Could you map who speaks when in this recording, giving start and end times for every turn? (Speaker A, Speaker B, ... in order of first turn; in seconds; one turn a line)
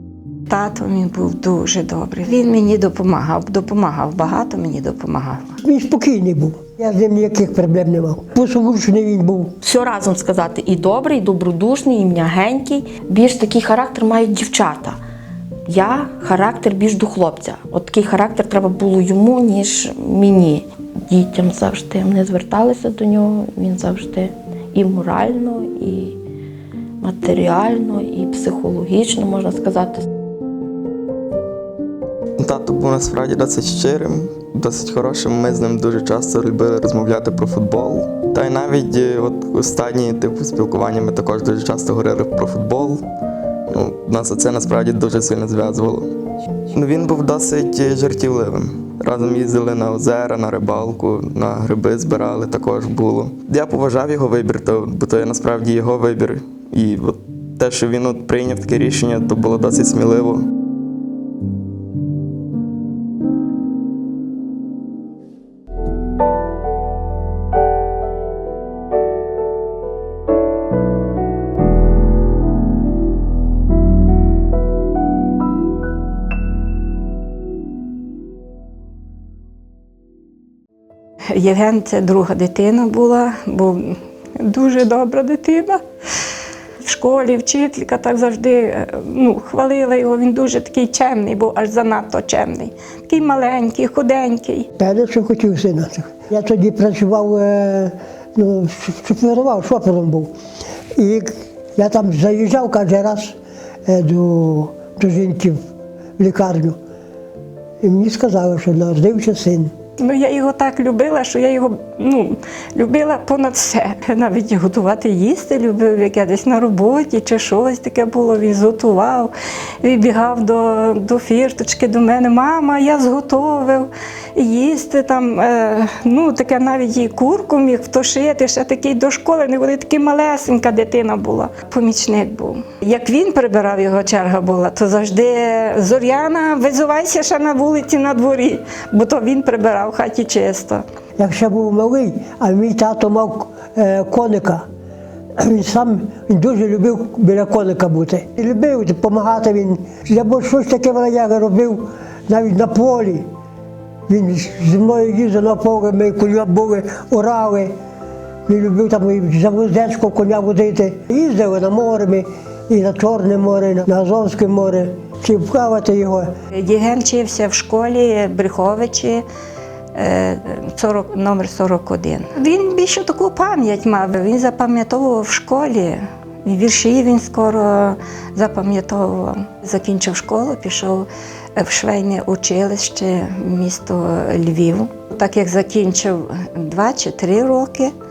Speaker A: 0.5-5.6
Speaker B: 5.6-9.5
Speaker C: 9.6-15.0
Speaker C: 15.7-26.2
Speaker C: 27.0-30.0
Speaker D: 32.4-43.0
Speaker D: 43.7-46.1
Speaker D: 46.7-60.4
Speaker A: 81.3-85.8
Speaker A: 86.8-94.7
Speaker B: 94.8-100.3
Speaker B: 101.0-105.6
Speaker B: 106.2-106.8
Speaker B: 107.8-109.7
Speaker A: 110.0-140.8
Speaker B: 141.2-144.6
Speaker B: 145.4-153.3
Speaker B: 154.1-157.7
Speaker B: 158.5-166.3
Speaker A: 166.5-169.2
Speaker A: 169.9-187.9